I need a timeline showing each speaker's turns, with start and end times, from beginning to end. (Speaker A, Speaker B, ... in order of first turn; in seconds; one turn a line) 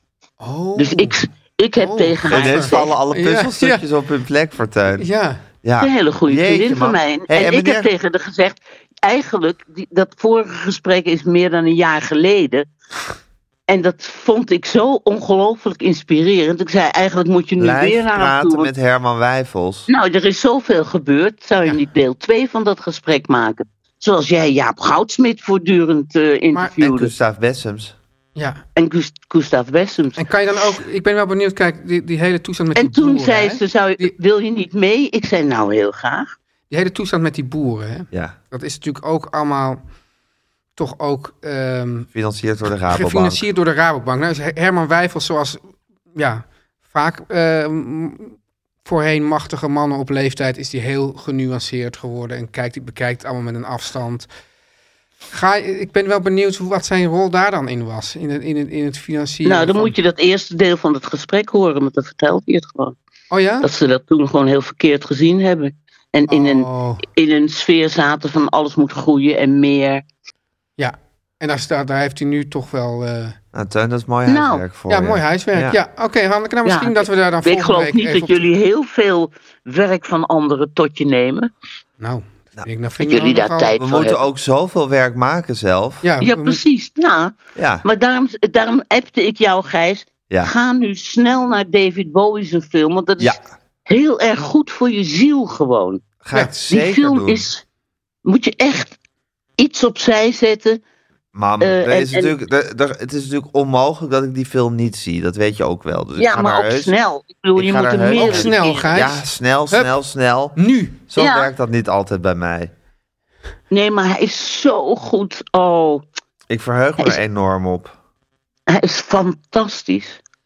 Speaker A: 0.4-1.2
Speaker B: 0.8-2.9
Speaker A: 1.8-3.8
Speaker C: 2.3-5.1
Speaker A: 5.0-5.4
Speaker C: 5.6-7.9
Speaker B: 5.8-12.7
Speaker B: 13.7-18.7
Speaker C: 17.6-19.9
Speaker B: 19.9-27.1
Speaker C: 26.8-27.9
Speaker A: 28.4-28.6
Speaker B: 28.8-30.2
Speaker A: 30.2-34.1
Speaker B: 32.7-36.3
Speaker A: 36.7-39.8
Speaker A: 40.8-42.1
Speaker C: 42.1-43.4
Speaker A: 42.9-45.6
Speaker A: 46.1-54.3
Speaker A: 55.3-59.9
Speaker B: 59.4-63.0
Speaker A: 63.3-63.7
Speaker B: 63.6-70.0
Speaker A: 66.3-67.0
Speaker A: 70.8-73.4
Speaker C: 73.5-75.8
Speaker B: 74.3-74.6
Speaker A: 74.9-78.5
Speaker B: 76.6-81.5
Speaker A: 82.0-83.7
Speaker B: 83.0-84.2
Speaker C: 83.8-86.0
Speaker A: 86.0-86.6
Speaker B: 86.2-96.0
Speaker C: 87.5-87.8
Speaker C: 96.2-97.4
Speaker B: 96.7-97.6
Speaker B: 98.2-99.0
Speaker B: 99.6-100.8
Speaker C: 101.3-106.9
Speaker B: 101.6-102.3
Speaker B: 106.2-108.9
Speaker C: 107.5-110.6
Speaker A: 108.1-109.9
Speaker A: 110.5-111.0
Speaker C: 111.1-112.7
Speaker B: 111.2-111.5
Speaker B: 113.7-116.0
Speaker C: 116.5-117.9
Speaker B: 118.7-120.2